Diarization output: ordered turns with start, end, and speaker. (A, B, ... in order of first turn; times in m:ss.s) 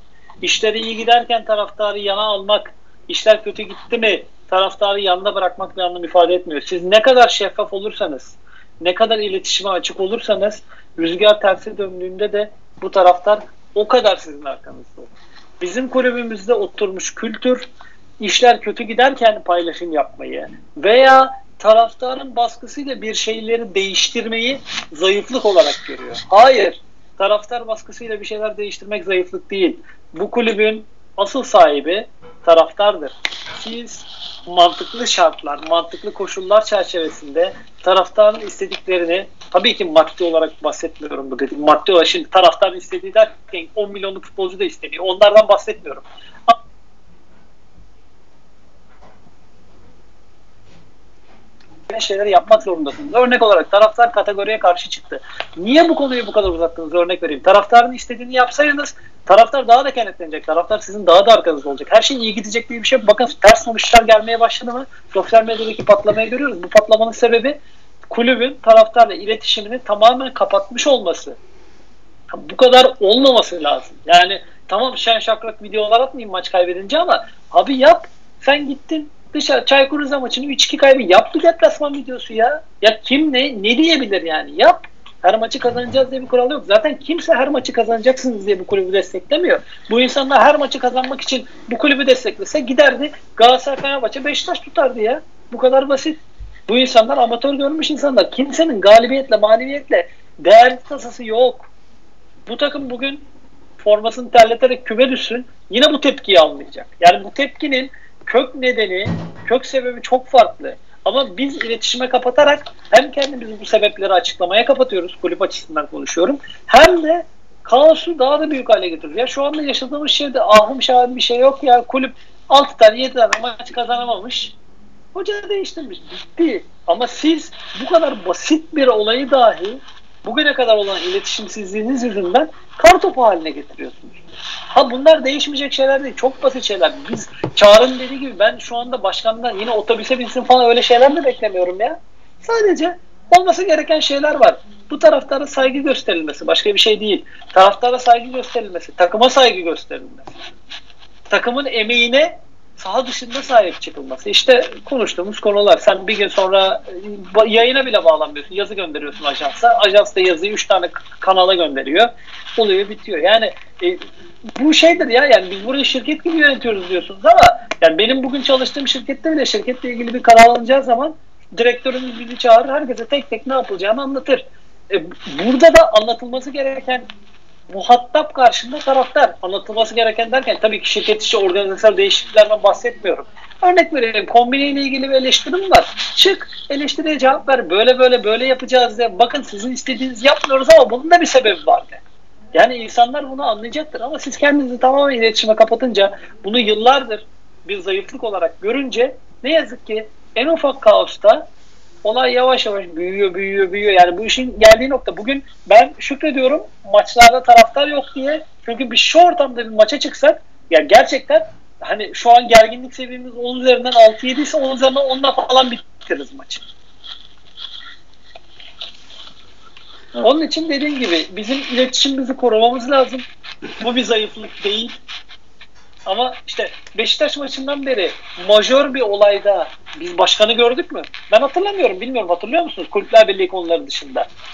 0:00.4-0:17.7 A
0:18.2-0:46.6 A
0:51.9-1:11.4 A
1:12.3-1:41.7 A
1:42.5-1:43.2 A
1:43.8-2:04.6 A
2:05.1-2:14.2 A
2:14.7-2:30.4 A
2:31.3-2:57.1 A
2:57.7-3:12.0 A
3:12.5-3:21.5 A
3:22.0-3:36.6 A
3:40.2-3:43.2 A
3:43.8-3:45.0 A
3:46.1-3:54.3 A